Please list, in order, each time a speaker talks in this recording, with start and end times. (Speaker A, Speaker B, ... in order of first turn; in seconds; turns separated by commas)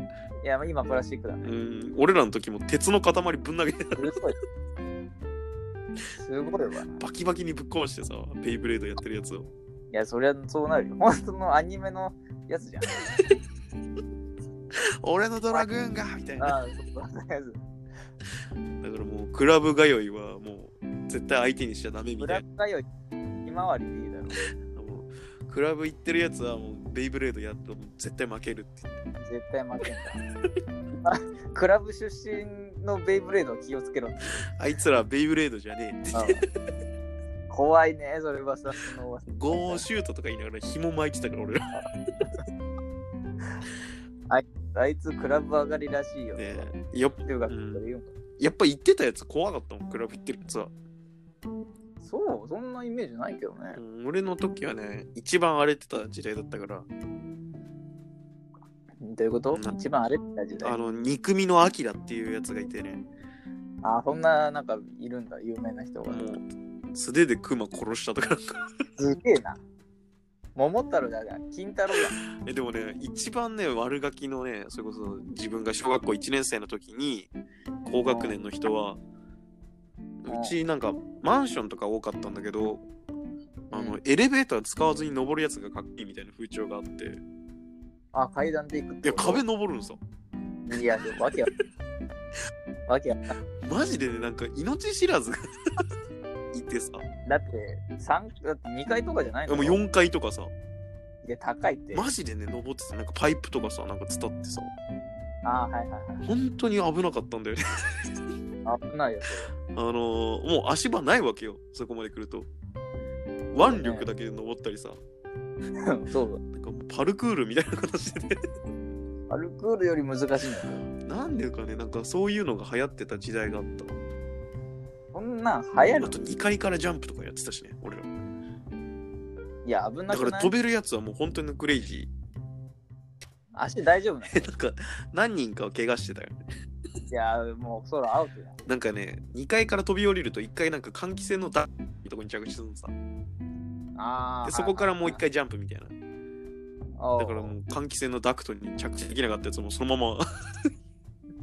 Speaker A: 0.4-1.5, Speaker B: 1.4-4.1, Speaker A: 4.0-4.4, Speaker A: 6.1-7.0, Speaker B: 7.0-9.5, Speaker A: 9.9-13.2, Speaker B: 15.0-16.6, Speaker A: 16.4-17.6, Speaker B: 18.8-22.4, Speaker A: 22.2-22.9, Speaker A: 23.4-24.4, Speaker B: 24.7-28.9, Speaker A: 29.2-30.2, Speaker A: 31.0-34.5, Speaker B: 34.5-36.4, Speaker A: 36.1-36.4, Speaker A: 37.5-39.9, Speaker B: 39.3-41.8, Speaker A: 44.3-46.7, Speaker B: 46.3-47.8, Speaker A: 47.2-48.1, Speaker B: 48.4-50.7, Speaker A: 52.0-53.8, Speaker B: 53.7-56.9, Speaker A: 59.0-60.8, Speaker B: 60.6-63.0, Speaker A: 63.8-66.3, Speaker B: 66.1-68.5, Speaker A: 69.0-69.6, Speaker A: 70.6-72.2, Speaker B: 72.5-77.3, Speaker B: 77.8-79.0, Speaker A: 78.1-78.4, Speaker B: 80.2-82.8, Speaker A: 80.3-80.6, Speaker A: 83.7-84.0, Speaker B: 83.7-87.2, Speaker A: 88.1-89.4, Speaker B: 89.0-90.0, Speaker A: 90.7-91.5, Speaker A: 92.9-93.3, Speaker B: 93.6-95.8, Speaker B: 96.5-97.0, Speaker A: 97.3-99.8, Speaker B: 99.5-100.5, Speaker A: 101.2-102.1, Speaker B: 101.9-104.7, Speaker A: 105.4-106.2, Speaker B: 106.2-108.1, Speaker A: 108.7-109.5, Speaker B: 109.7-112.5, Speaker B: 113.5-115.0, Speaker A: 113.6-114.1, Speaker A: 115.8-116.4, Speaker B: 116.5-118.4, Speaker A: 119.3-120.8, Speaker B: 121.0-124.0, Speaker A: 125.1-126.2, Speaker B: 125.8-128.1, Speaker A: 129.7-130.6, Speaker B: 130.1-132.1, Speaker A: 133.6-134.5, Speaker B: 134.3-136.4, Speaker A: 137.1-138.6, Speaker B: 138.7-142.9, Speaker A: 144.0-145.2, Speaker B: 144.4-145.9, Speaker A: 147.0-147.6, Speaker B: 147.2-150.2